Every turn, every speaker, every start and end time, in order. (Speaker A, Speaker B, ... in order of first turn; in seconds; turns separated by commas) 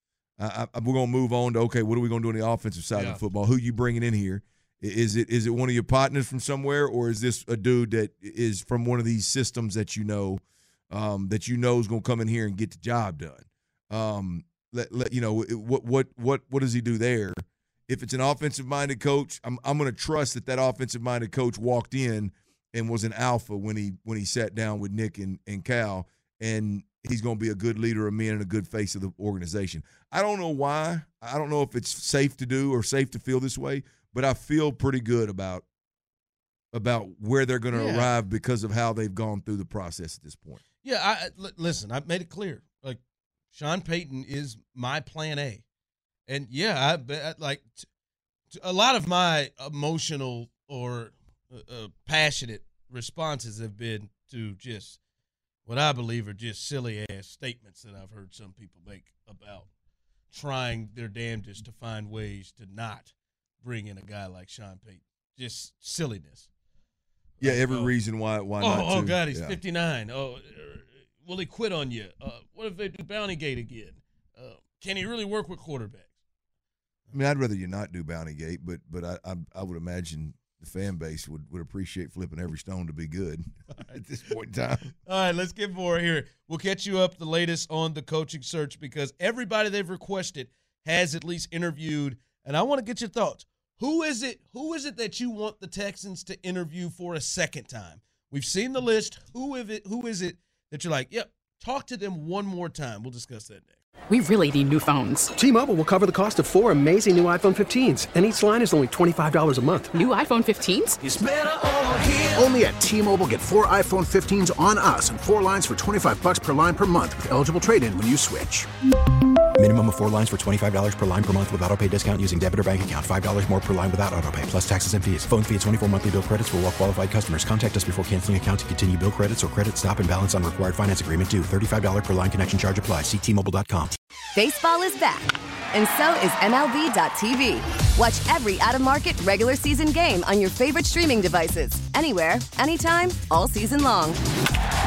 Speaker A: 0.4-35.6, Speaker B: 3.0-3.2, Speaker A: 36.7-40.6, Speaker B: 37.7-38.1, Speaker B: 40.8-43.0, Speaker B: 43.5-45.6, Speaker B: 46.3-47.9, Speaker B: 48.5-55.0, Speaker B: 55.7-59.7, Speaker B: 60.3-66.5, Speaker A: 67.4-69.6, Speaker B: 67.4-67.9, Speaker B: 68.6-76.1, Speaker A: 77.1-85.0, Speaker B: 85.1-103.8, Speaker C: 104.1-105.3, Speaker D: 105.4-110.0, Speaker C: 109.9-111.0, Speaker E: 111.0-111.7, Speaker E: 112.3-118.7, Speaker F: 119.6-134.0, Speaker G: 134.3-144.2